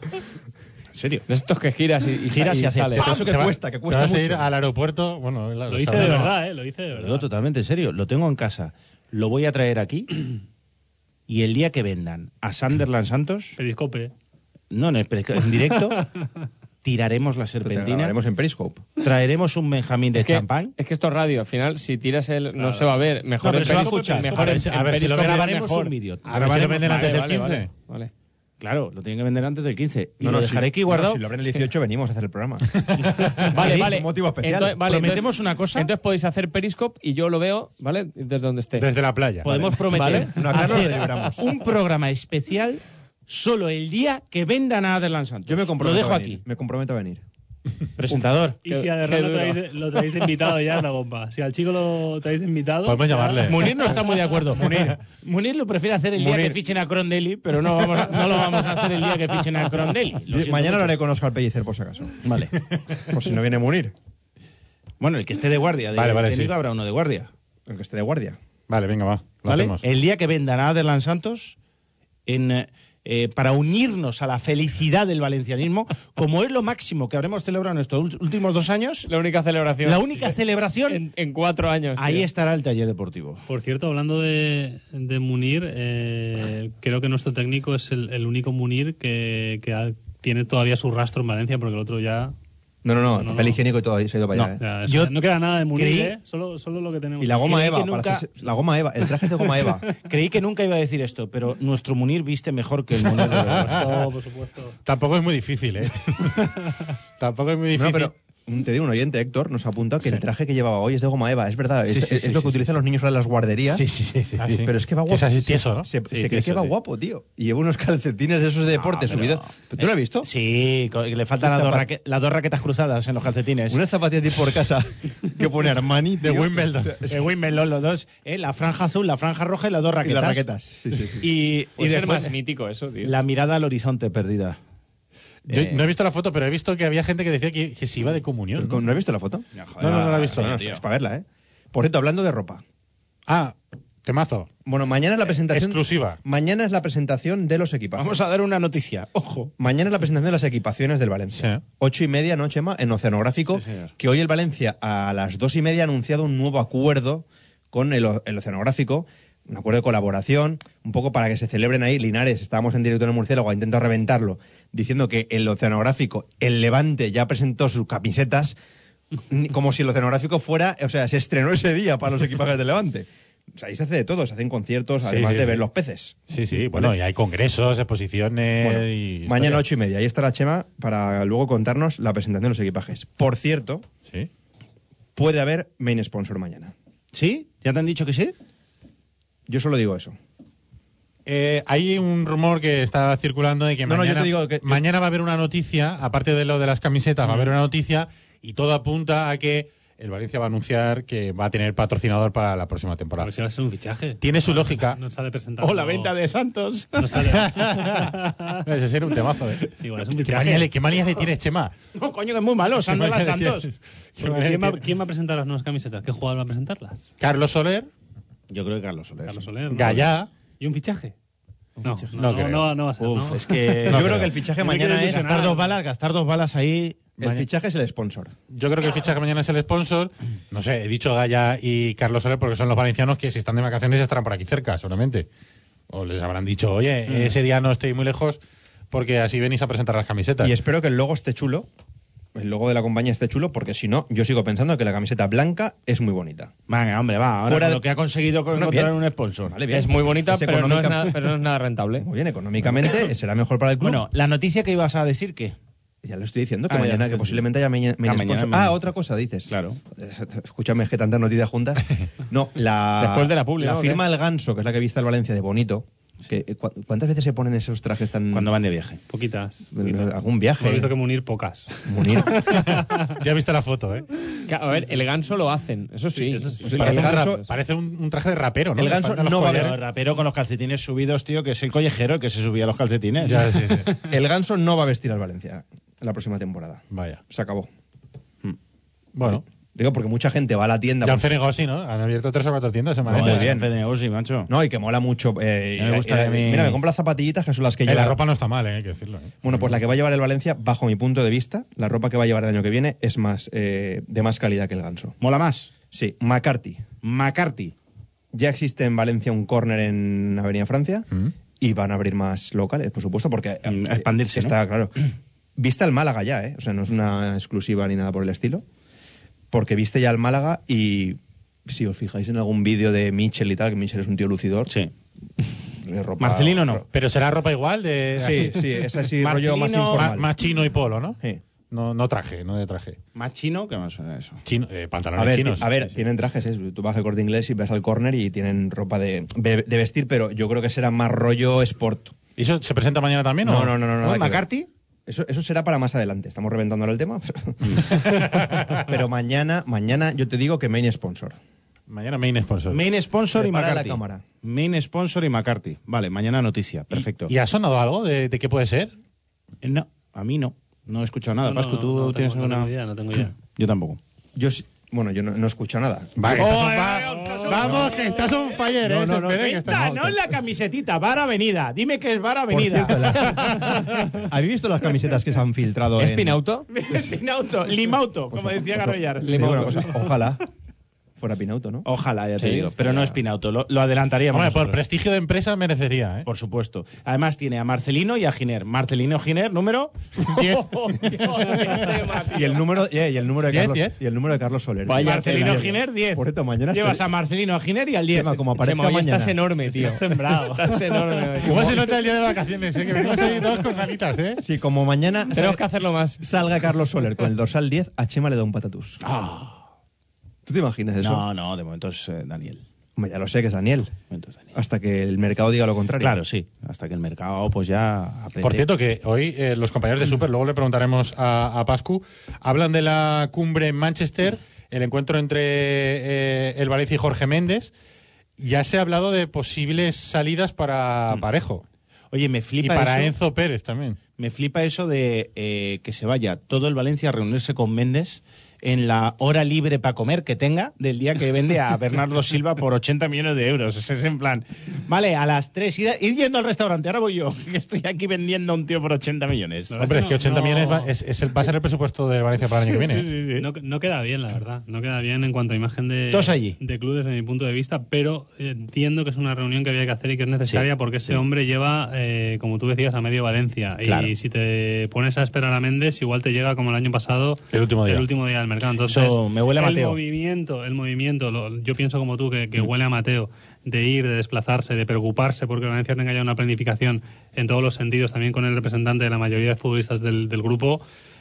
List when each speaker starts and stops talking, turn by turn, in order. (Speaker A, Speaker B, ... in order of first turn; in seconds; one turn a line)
Speaker A: 0.9-1.2
Speaker B: 1.3-3.1
Speaker A: 2.3-3.4
Speaker C: 3.0-4.5
Speaker D: 3.2-6.3
Speaker E: 5.7-7.3
Speaker A: 5.9-6.3
Speaker A: 6.9-10.3
Speaker A: 11.3-13.6
Speaker E: 13.6-14.1
Speaker A: 14.7-16.0
Speaker E: 15.7-16.3
Speaker A: 16.8-18.1
Speaker C: 17.6-18.8
Speaker A: 19.0-20.7
Speaker B: 20.1-25.9
Speaker A: 23.4-27.3
Speaker E: 23.7-23.9
Speaker D: 23.8-25.6
Speaker D: 26.2-27.7
Speaker B: 26.8-28.1
Speaker A: 28.6-31.2
Speaker C: 30.2-34.8
Speaker B: 33.5-38.9
Speaker A: 33.5-34.0
Speaker A: 34.8-35.9
Speaker D: 38.8-39.6
Speaker A: 39.4-46.4
Speaker B: 39.9-40.8
Speaker C: 40.0-41.5
Speaker C: 45.5-47.2
Speaker A: 48.0-48.6
Speaker B: 48.6-49.6
Speaker E: 48.6-54.1
Speaker D: 52.8-53.7
Speaker A: 53.4-60.9
Speaker C: 60.3-62.1
Speaker A: 62.2-62.5
Speaker C: 63.1-63.9
Speaker A: 65.0-67.3
Speaker D: 65.9-66.5
Speaker C: 67.7-68.4
Speaker D: 68.7-69.8
Speaker A: 69.5-71.5
Speaker A: 72.3-79.1
Speaker B: 79.0-80.3
Speaker A: 79.8-81.0
Speaker B: 80.9-82.3
Speaker A: 82.0-83.4
Speaker E: 83.5-92.3
Speaker C: 92.8-94.6
Speaker E: 93.1-93.6
Speaker A: 94.3-95.1
Speaker E: 94.6-97.6
Speaker A: 95.7-96.1
Speaker C: 97.2-99.8
Speaker A: 97.4-98.2
Speaker A: 100.0-103.9
Speaker D: 103.3-104.0
Speaker E: 103.5-104.8
Speaker D: 104.8-106.6
Speaker D: 107.2-108.1
Speaker C: 107.7-113.8
Speaker A: 111.8-112.7
Speaker A: 113.7-114.5
Speaker D: 114.4-115.9
Speaker C: 114.6-120.3
Speaker A: 116.1-116.7
Speaker A: 118.7-123.8
Speaker C: 121.4-121.9
Speaker C: 123.7-127.2
Speaker D: 126.2-127.0
Speaker A: 127.1-130.4
Speaker C: 130.0-131.4
Speaker A: 131.2-132.3
Speaker B: 131.8-133.1
Speaker A: 133.0-134.6
Speaker D: 135.5-138.8
Speaker A: 135.5-135.8
Speaker C: 138.6-142.6
Speaker A: 139.5-140.8
Speaker D: 139.8-140.4
Speaker D: 143.3-144.5
Speaker C: 144.7-148.2
Speaker D: 145.5-146.2
Speaker A: 148.0-149.5
Speaker C: 149.6-168.6
Speaker D: 151.4-151.6
Speaker A: 153.5-153.9
Speaker C: 169.3-176.2
Speaker D: 175.0-175.6
Speaker D: 176.3-179.6
Speaker C: 178.6-183.8
Speaker C: 185.2-186.7
Speaker A: 187.1-188.3
Speaker C: 189.5-190.2
Speaker D: 191.2-203.3
Speaker C: 193.8-194.8
Speaker E: 203.2-206.1
Speaker D: 204.2-205.0
Speaker A: 205.6-207.4
Speaker E: 206.9-208.6
Speaker D: 207.4-208.1
Speaker D: 208.7-209.7
Speaker E: 209.8-210.7
Speaker D: 210.2-211.7
Speaker A: 211.9-213.7
Speaker D: 212.9-214.8
Speaker E: 214.2-217.1
Speaker D: 217.2-217.9
Speaker A: 218.5-220.0
Speaker E: 219.2-220.1
Speaker D: 219.7-220.3
Speaker E: 220.6-221.1
Speaker A: 221.8-222.2
Speaker E: 221.8-223.9
Speaker D: 222.2-222.7
Speaker A: 223.0-224.3
Speaker C: 223.9-225.3
Speaker D: 223.9-224.3
Speaker E: 224.6-225.8
Speaker A: 224.8-227.1
Speaker C: 227.2-228.3
Speaker D: 228.5-235.3
Speaker D: 235.9-238.4
Speaker A: 237.1-237.3
Speaker D: 238.9-240.5
Speaker C: 240.4-241.7
Speaker C: 242.3-246.5
Speaker A: 246.7-249.6
Speaker C: 247.4-247.8
Speaker C: 248.5-251.3
Speaker B: 249.7-252.1
Speaker C: 252.0-254.1
Speaker A: 252.6-253.0
Speaker A: 253.8-255.6
Speaker C: 256.0-268.5
Speaker A: 256.7-257.4
Speaker A: 258.0-258.8
Speaker A: 259.5-259.8
Speaker B: 263.0-264.0
Speaker A: 268.3-269.0
Speaker E: 269.1-273.1
Speaker C: 269.7-270.9
Speaker C: 271.9-272.4
Speaker D: 272.5-274.1
Speaker B: 274.5-277.5
Speaker E: 276.1-276.7
Speaker C: 276.6-277.4
Speaker D: 276.7-279.8
Speaker C: 278.8-279.8
Speaker A: 279.4-283.7
Speaker D: 283.2-283.9
Speaker C: 284.1-287.7
Speaker D: 286.9-287.2
Speaker D: 289.1-289.4
Speaker C: 289.2-291.2
Speaker D: 291.0-293.5
Speaker C: 293.0-293.7
Speaker A: 293.1-294.5
Speaker C: 294.5-298.2
Speaker A: 295.8-296.8
Speaker D: 297.9-299.5
Speaker C: 299.4-305.1
Speaker A: 305.2-305.7
Speaker C: 305.9-306.8
Speaker A: 307.0-307.7
Speaker C: 308.3-311.1
Speaker C: 311.6-315.0
Speaker A: 313.6-314.5
Speaker C: 315.6-318.6
Speaker C: 319.5-324.7
Speaker C: 325.8-326.8
Speaker A: 326.2-326.8
Speaker D: 326.9-328.6
Speaker C: 328.2-330.3
Speaker A: 329.2-330.2
Speaker D: 329.9-331.2
Speaker D: 331.7-333.0
Speaker A: 333.1-334.4
Speaker D: 334.4-335.7
Speaker C: 335.1-342.1
Speaker D: 342.4-343.7
Speaker C: 343.4-344.4
Speaker A: 344.0-344.7
Speaker C: 345.1-351.4
Speaker D: 347.8-348.9
Speaker D: 351.9-352.8
Speaker A: 352.7-357.3
Speaker C: 353.3-354.2
Speaker D: 356.9-358.9
Speaker A: 359.6-364.0
Speaker E: 361.4-363.3
Speaker C: 364.3-366.7
Speaker D: 366.2-370.2
Speaker A: 366.3-373.8
Speaker E: 367.1-367.4
Speaker C: 367.6-367.9
Speaker C: 368.9-369.6
Speaker C: 372.5-376.4
Speaker B: 376.0-376.7
Speaker A: 376.7-379.7
Speaker C: 378.3-380.4
Speaker B: 379.2-380.0
Speaker C: 381.2-381.9
Speaker A: 381.9-384.8
Speaker B: 382.4-383.1
Speaker D: 384.3-386.2
Speaker A: 386.2-392.6
Speaker C: 392.2-397.0
Speaker D: 393.5-393.9
Speaker B: 394.8-395.7
Speaker A: 395.0-398.4
Speaker C: 398.1-399.4
Speaker B: 398.6-401.8
Speaker E: 399.7-401.7
Speaker D: 401.4-404.4
Speaker E: 403.0-403.4
Speaker C: 404.4-409.0
Speaker B: 405.3-406.2
Speaker A: 409.0-409.6
Speaker C: 410.4-411.2
Speaker A: 411.0-412.6
Speaker C: 412.9-413.9
Speaker A: 414.1-414.5
Speaker C: 414.5-416.2
Speaker A: 416.0-418.7
Speaker D: 418.4-427.7
Speaker D: 428.4-431.6
Speaker A: 432.1-433.1
Speaker D: 432.6-434.0
Speaker A: 434.1-449.7
Speaker E: 449.7-450.9
Speaker D: 449.8-453.1
Speaker A: 450.4-450.8
Speaker A: 452.5-453.4
Speaker E: 453.4-480.8
Speaker A: 456.1-456.6
Speaker A: 460.5-461.2
Speaker A: 463.8-464.1
Speaker D: 467.5-468.1
Speaker A: 468.9-470.0